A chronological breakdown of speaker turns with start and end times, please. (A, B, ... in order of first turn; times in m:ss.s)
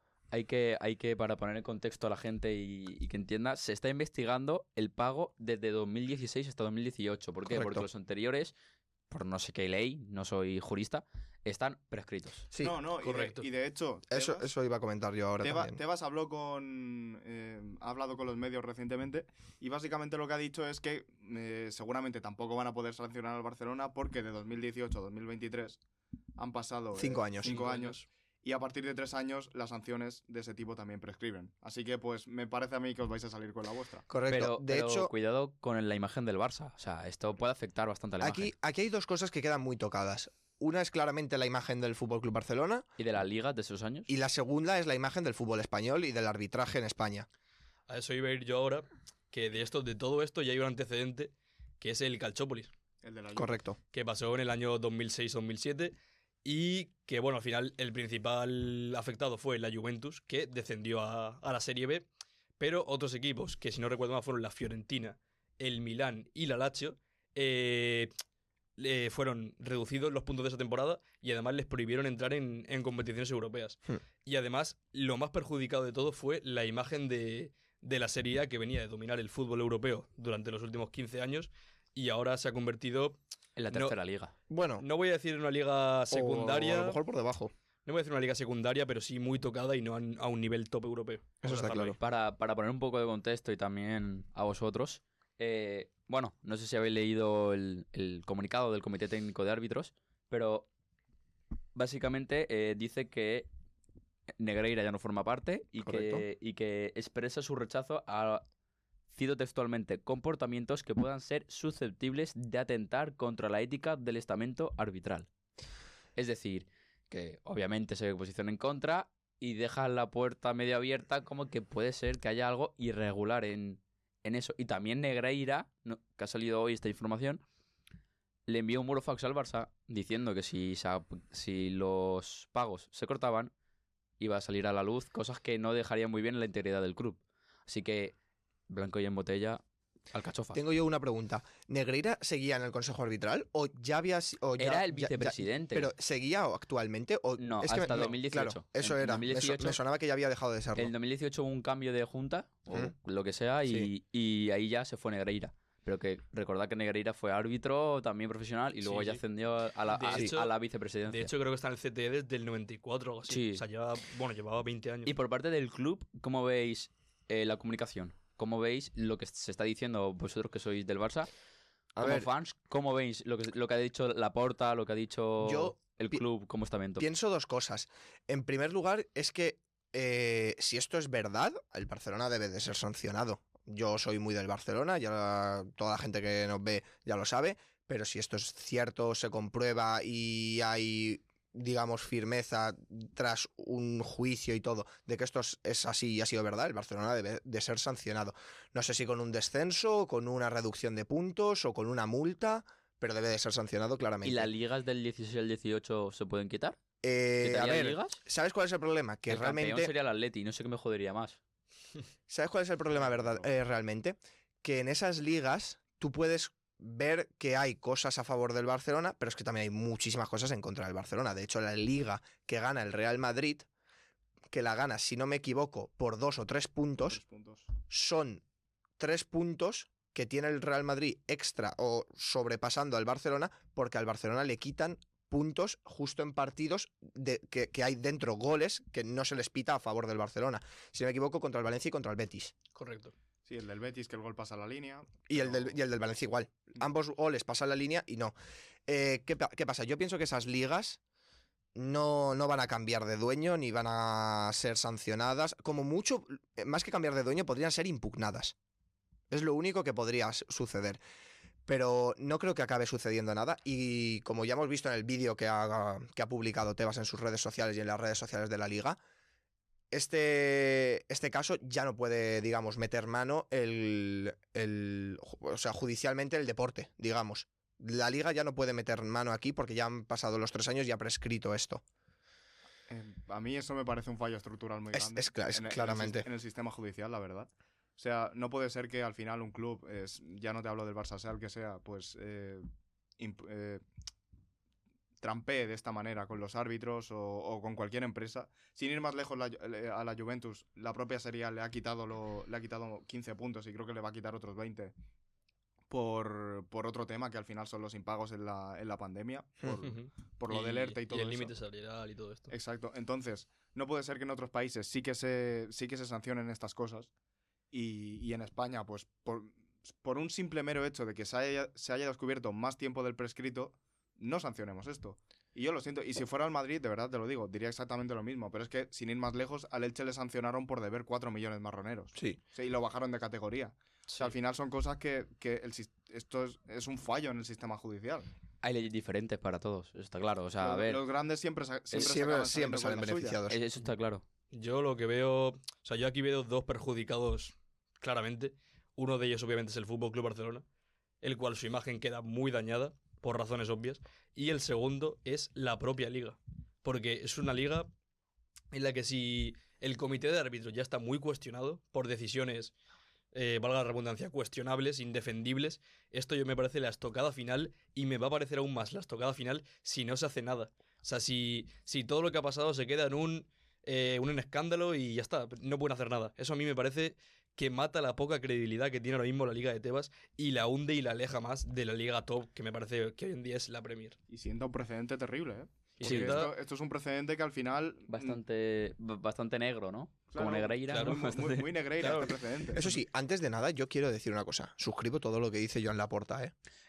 0:00.3-0:08.5 A
0:07.5-0:07.8 B
0:09.1-0:12.5 A
0:12.5-0:12.8 B
0:12.6-0:14.5 C
0:13.0-0:13.5 D
0:14.1-0:15.8 B
0:15.4-0:25.8 C
0:26.4-0:34.1 C
0:27.0-0:27.6 B
0:27.4-0:28.1 D
0:34.1-0:35.1 B
0:34.3-0:38.5 A
0:38.2-0:42.9 B
0:43.0-0:44.1 A
0:44.1-0:47.3 B
0:47.9-0:52.7 D
0:53.0-0:53.6 C
0:53.4-0:53.8 B
0:53.9-1:02.1 D
1:02.6-1:08.1 D
1:08.8-1:23.2 D
1:23.6-1:24.3 A
1:24.5-1:24.9 B
1:24.8-1:27.0 D
1:26.1-1:27.5 B
1:27.9-1:32.0 D
1:31.4-1:32.0 B
1:32.0-1:40.7 A
1:41.8-1:43.5 A
1:44.4-1:48.4 A
1:45.8-1:46.2 B
1:49.1-1:55.3 A
1:56.2-2:07.4 A
2:08.5-2:13.5 A
2:14.2-2:18.2 A
2:18.7-2:20.6 A
2:20.5-2:30.9 B
2:24.6-2:25.9 A
2:27.4-2:29.8 A
2:30.8-2:41.3 A
2:38.8-2:39.2 D
2:39.9-2:40.5 D
2:41.1-2:45.1 D
2:43.3-2:43.6 A
2:45.1-2:51.3 A
2:52.0-2:52.3 B
2:52.0-2:57.1 A
2:55.4-2:56.2 B
2:57.0-3:24.5 B
3:24.2-3:26.8 A
3:27.0-3:29.9 B
3:27.4-3:28.2 A
3:29.3-3:31.4 A
3:32.3-3:43.7 B
3:44.5-3:47.2 B
3:47.1-3:47.7 C
3:47.8-3:48.4 B
3:49.0-4:02.5 B
4:02.8-4:03.1 D
4:03.5-4:05.8 C
4:05.3-4:08.3 B
4:08.9-4:11.0 B
4:11.8-4:18.6 B
4:19.3-4:21.0 B
4:21.7-4:29.0 B
4:29.9-4:41.8 B
4:42.9-4:52.6 C
4:44.9-4:46.3 B
4:53.2-4:53.8 C
4:55.2-5:04.9 C
5:05.9-5:11.5 C
5:09.8-5:12.5 D
5:12.5-5:17.1 C
5:17.7-5:38.3 C
5:38.6-5:41.0 A
5:40.6-5:43.4 C
5:41.9-5:43.6 B
5:43.5-5:44.2 A
5:44.5-5:50.6 D
5:51.2-5:57.9 D
5:58.7-6:02.7 D
6:03.3-6:24.2 D
6:24.3-6:28.4 C
6:26.0-6:26.5 D
6:26.0-6:26.5 A
6:28.1-6:31.8 A
6:30.3-6:32.9 C
6:30.9-6:31.3 D
6:32.0-6:32.4 D
6:32.8-6:36.5 B